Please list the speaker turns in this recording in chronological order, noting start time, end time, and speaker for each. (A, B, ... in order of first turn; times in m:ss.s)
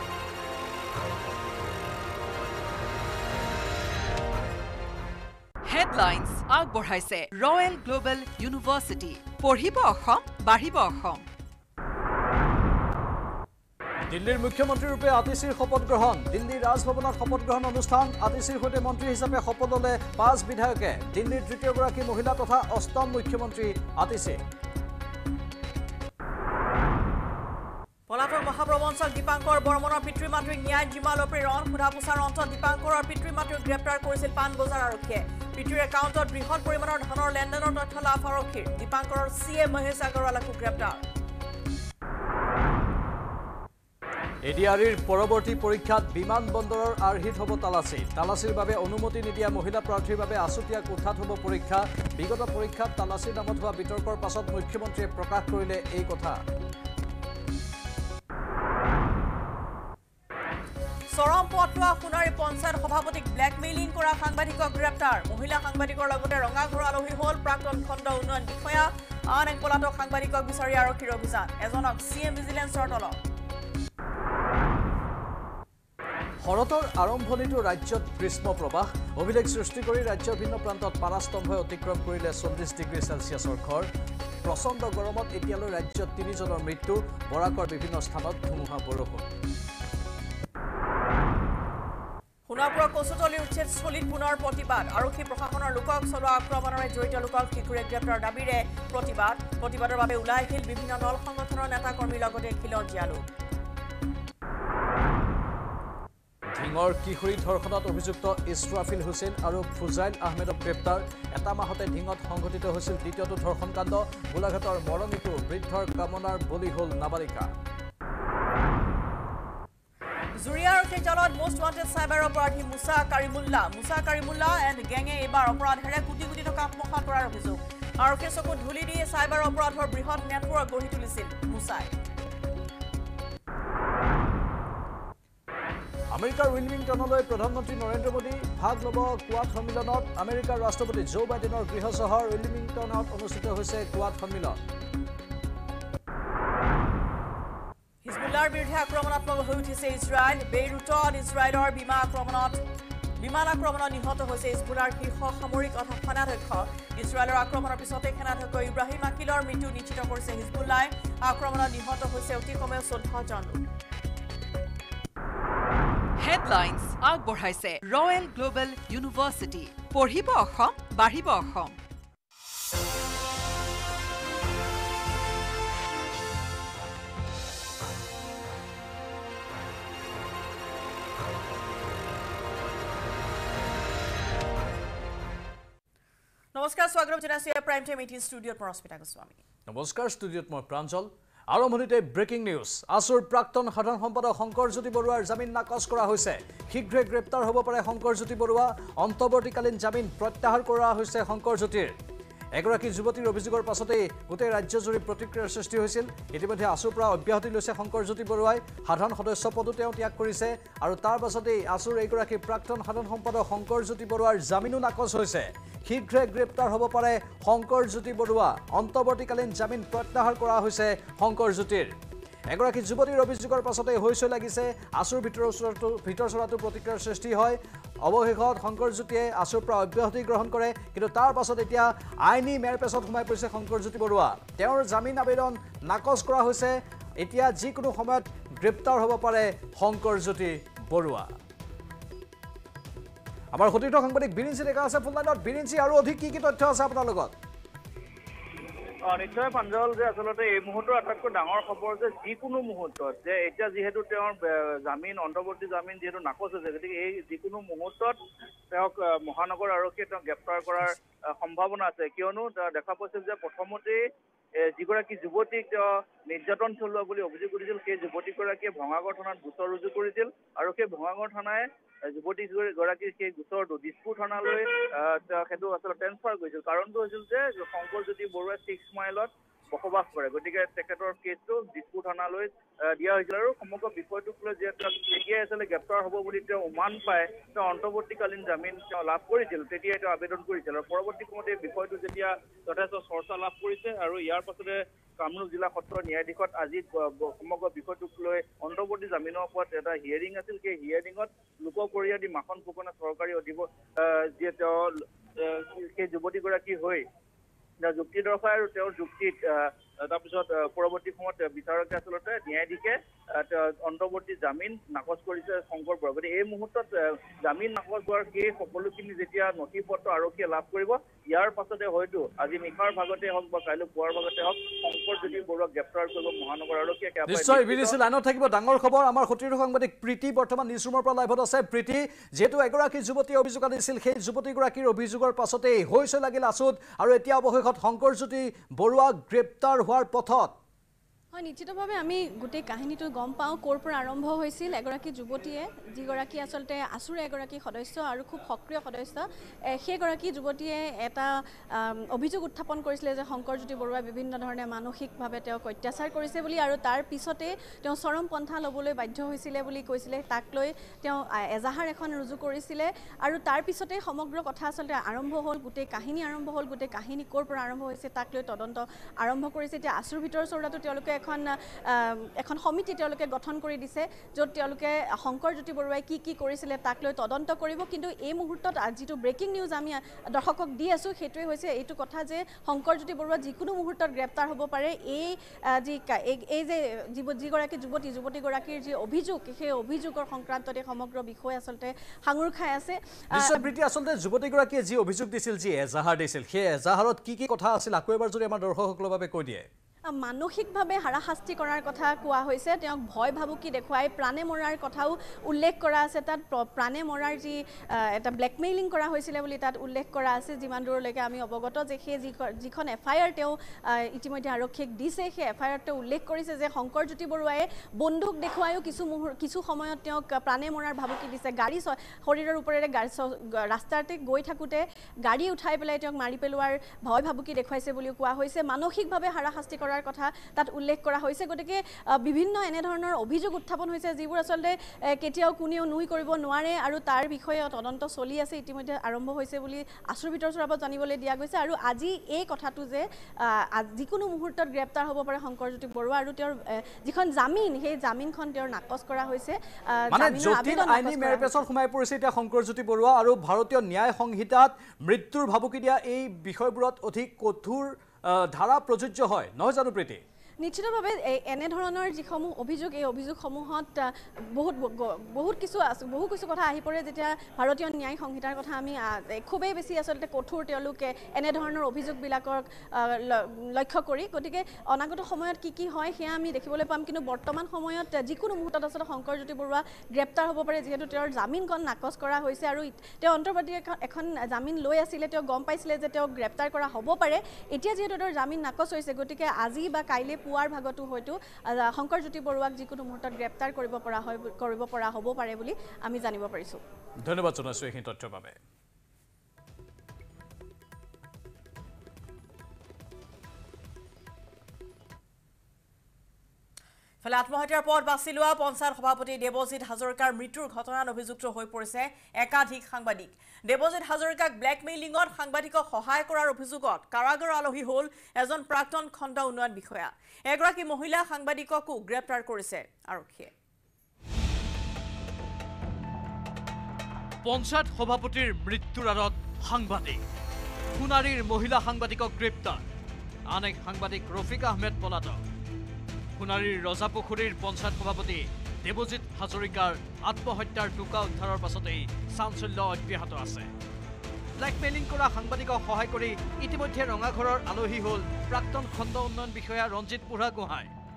0:05.6-0:11.2 A
0:14.1-0:24.4 B
0:28.1-0:41.0 C
0:44.4-0:56.4 B
1:01.1-1:13.2 C
1:16.4-1:23.9 B
1:24.4-1:29.3 B
1:32.5-1:43.2 C
1:46.5-1:57.5 B
2:00.4-2:11.9 C
2:16.1-2:24.6 B
2:28.0-2:32.6 C
2:33.2-2:43.6 C
2:46.2-2:51.8 A
3:06.5-3:09.4 C
3:09.7-3:21.9 B
3:22.5-3:41.9 B
3:42.5-4:01.3 B
4:03.5-4:07.3 B
4:09.1-4:18.2 D
4:18.7-4:24.0 D
4:24.6-5:07.0 D
5:07.8-5:28.0 D
5:27.2-5:40.5 B
5:41.3-6:33.6 E
6:33.3-6:39.7 B
6:40.2-7:31.6 E
7:30.1-7:40.2 B
7:40.6-8:16.8 E
8:17.2-8:18.6 B
8:27.2-8:43.5 C
8:47.4-8:50.2 B
8:51.0-8:52.8 B
8:53.5-8:55.4 B
8:56.4-9:03.7 B
9:04.6-9:10.9 B